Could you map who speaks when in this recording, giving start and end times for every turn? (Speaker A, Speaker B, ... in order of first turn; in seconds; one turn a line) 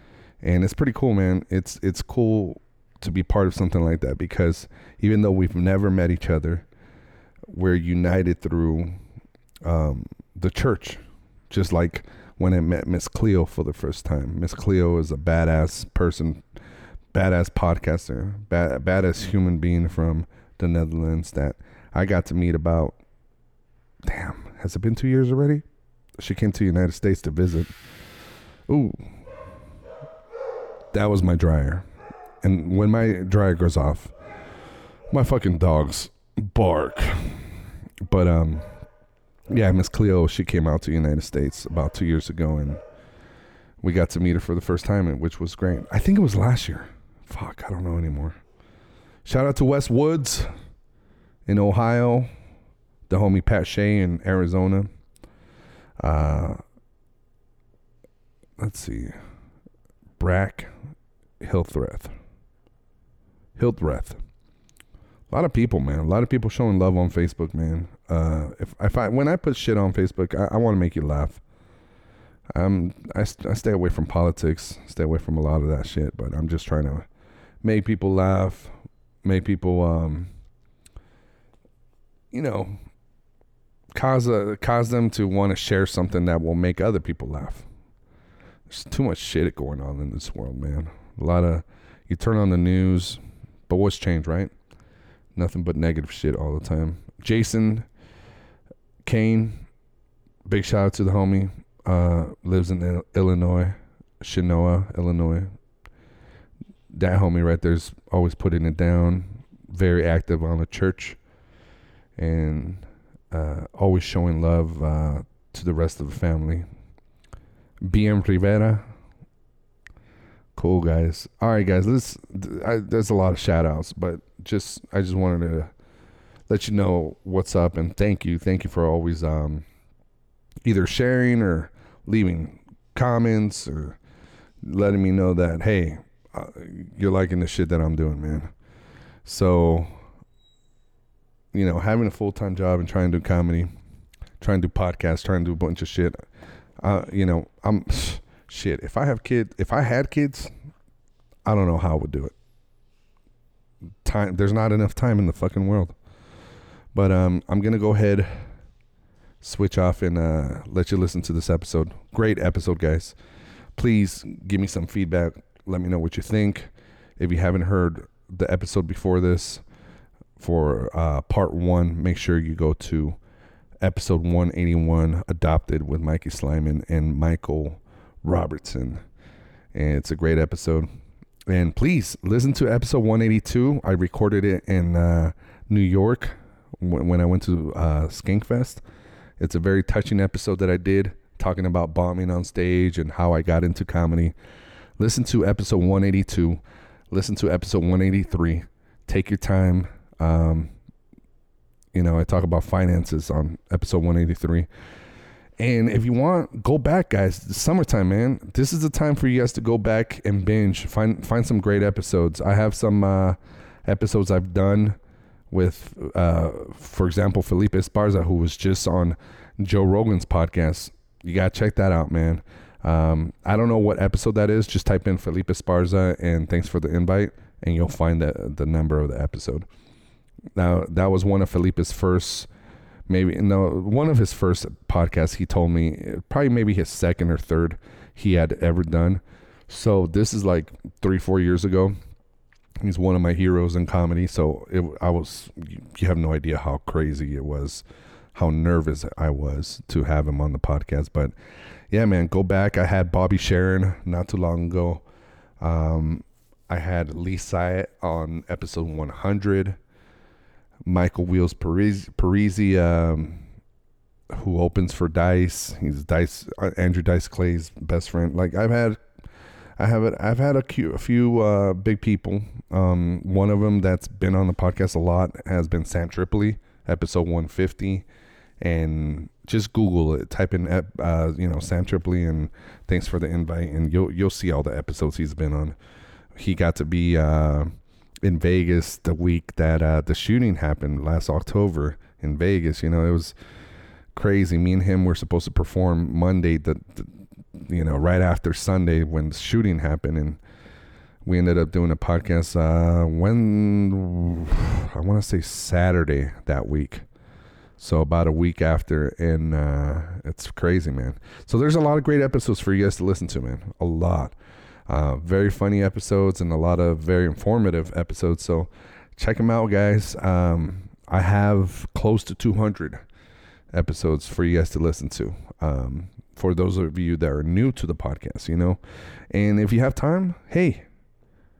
Speaker A: 0.4-6.7
Speaker A: 7.5-9.0
Speaker A: 9.6-16.4
Speaker A: 17.1-23.0
Speaker A: 24.0-25.6
Speaker A: 26.2-27.7
Speaker A: 28.7-29.0
Speaker A: 30.9-31.9
Speaker A: 32.4-34.1
Speaker A: 35.1-37.4
Speaker A: 38.0-38.7
Speaker A: 39.5-42.8
Speaker A: 43.8-48.4
Speaker A: 49.2-50.5
Speaker A: 51.5-52.3
Speaker A: 53.1-54.9
Speaker A: 56.0-56.6
Speaker A: 58.6-59.2
Speaker A: 60.2-60.7
Speaker A: 61.4-62.1
Speaker A: 63.6-64.2
Speaker A: 65.3-71.4
Speaker A: 72.5-77.1
Speaker A: 77.6-78.7
Speaker A: 79.2-80.3
Speaker A: 82.3-82.8
Speaker A: 83.9-87.7
Speaker A: 88.7-94.5
Speaker A: 95.3-97.9
Speaker A: 99.0-99.6
Speaker A: 100.5-105.5
Speaker A: 106.9-111.2
Speaker A: 112.2-116.7
Speaker A: 117.8-118.8
Speaker A: 120.6-125.7
Speaker A: 126.5-129.7
Speaker A: 130.6-134.0
Speaker A: 134.6-138.5
Speaker A: 139.2-139.9
Speaker A: 141.5-143.7
Speaker A: 144.4-146.2
Speaker A: 146.8-150.5
Speaker A: 151.4-152.3
Speaker A: 154.0-155.9
Speaker A: 156.9-158.4
Speaker A: 159.4-163.2
Speaker A: 163.8-169.6
Speaker A: 170.4-173.2
Speaker A: 173.8-179.0
Speaker A: 179.7-180.9
Speaker A: 181.5-188.8
Speaker A: 189.4-194.3
Speaker A: 195.0-200.7
Speaker A: 201.9-204.7
Speaker A: 205.6-215.0
Speaker A: 215.5-229.7
Speaker A: 230.6-232.5
Speaker A: 233.1-242.0
Speaker A: 242.8-251.3
Speaker A: 251.9-255.0
Speaker A: 255.6-259.8
Speaker A: 260.9-263.4
Speaker A: 264.3-269.0
Speaker A: 269.8-278.1
Speaker A: 278.6-285.8
Speaker A: 286.4-293.4
Speaker A: 294.1-300.4
Speaker A: 301.2-307.1
Speaker A: 307.8-314.4
Speaker A: 314.9-323.0
Speaker A: 323.7-328.8
Speaker A: 329.3-330.9